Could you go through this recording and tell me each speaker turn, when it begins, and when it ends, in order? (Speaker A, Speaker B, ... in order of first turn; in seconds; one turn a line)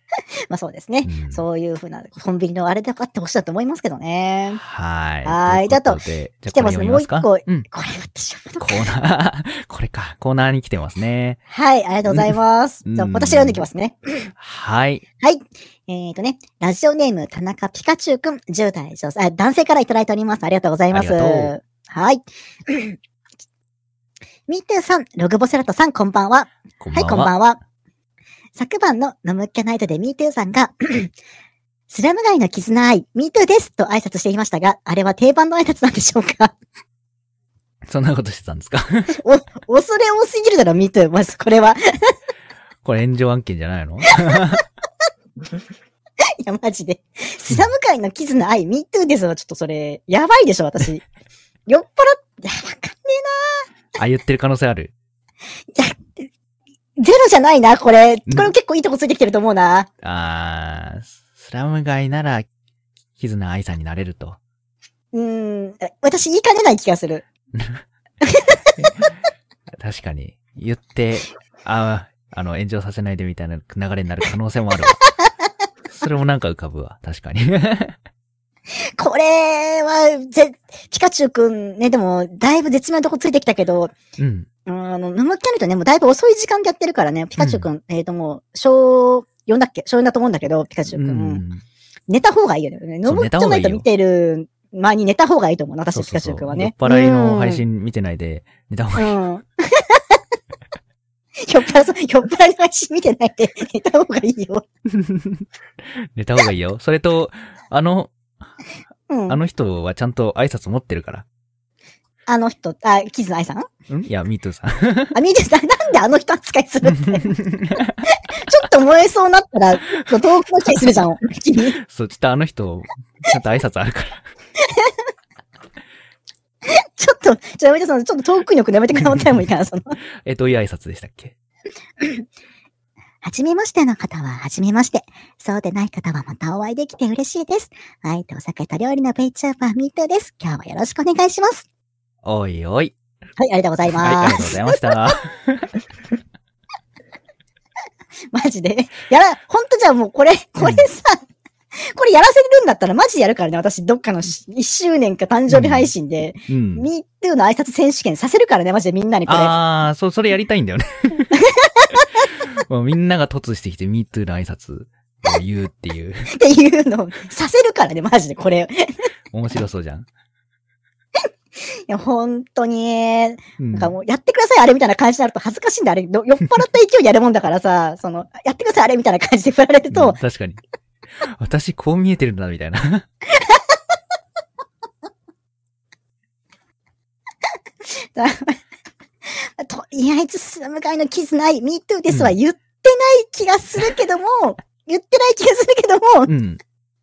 Speaker A: 0.5-4.6
Speaker B: 1.1-1.4
Speaker B: 4.5-7.7
Speaker A: 5.2-6.0
Speaker A: 6.5-8.9
Speaker B: 8.6-11.4
Speaker A: 11.5-14.3
Speaker B: 12.1-13.6
Speaker B: 14.4-15.0
Speaker A: 15.2-23.0
Speaker B: 20.9-21.5
Speaker A: 24.5-27.6
Speaker B: 26.8-27.3
Speaker A: 28.6-31.1
Speaker A: 31.9-36.5
Speaker B: 37.9-39.2
Speaker A: 39.2-42.1
Speaker B: 42.8-44.6
Speaker A: 44.2-44.5
Speaker A: 46.4-51.0
Speaker A: 51.7-53.6
Speaker B: 54.0-54.9
Speaker A: 55.7-56.3
Speaker A: 57.0-59.9
Speaker B: 58.3-58.5
Speaker B: 60.0-62.5
Speaker B: 63.2-64.4
Speaker A: 65.1-67.2
Speaker B: 67.5-67.8
Speaker A: 68.2-68.9
Speaker B: 69.8-75.0
Speaker B: 75.9-78.0
Speaker A: 79.0-84.0
Speaker B: 84.2-84.5
Speaker A: 84.7-91.4
Speaker B: 87.4-87.7
Speaker B: 90.9-91.6
Speaker A: 92.1-97.6
Speaker B: 93.0-93.9
Speaker B: 95.9-99.2
Speaker A: 99.0-100.2
Speaker A: 101.4-104.7
Speaker B: 104.9-105.5
Speaker B: 106.0-108.1
Speaker A: 109.1-109.4
Speaker B: 109.3-111.2
Speaker A: 112.3-113.7
Speaker B: 113.9-115.2
Speaker A: 115.1-117.4
Speaker B: 116.9-118.0
Speaker A: 118.0-121.8
Speaker B: 121.8-124.2
Speaker A: 124.6-124.9
Speaker A: 126.7-130.0
Speaker B: 130.2-131.3
Speaker A: 133.2-141.7
Speaker B: 142.2-142.9
Speaker A: 143.4-144.8
Speaker B: 144.0-145.7
Speaker A: 148.3-151.2
Speaker B: 150.6-150.9
Speaker A: 151.8-159.6
Speaker B: 155.5-155.9
Speaker B: 156.5-156.9
Speaker B: 159.3-161.3
Speaker A: 161.3-162.0
Speaker B: 162.4-166.3
Speaker A: 166.3-168.9
Speaker B: 169.3-170.1
Speaker A: 171.9-180.2
Speaker B: 173.6-173.9
Speaker B: 179.9-180.6
Speaker B: 181.2-183.1
Speaker A: 183.3-183.8
Speaker A: 187.9-188.6
Speaker A: 189.3-196.3
Speaker B: 192.1-192.4
Speaker B: 196.3-196.6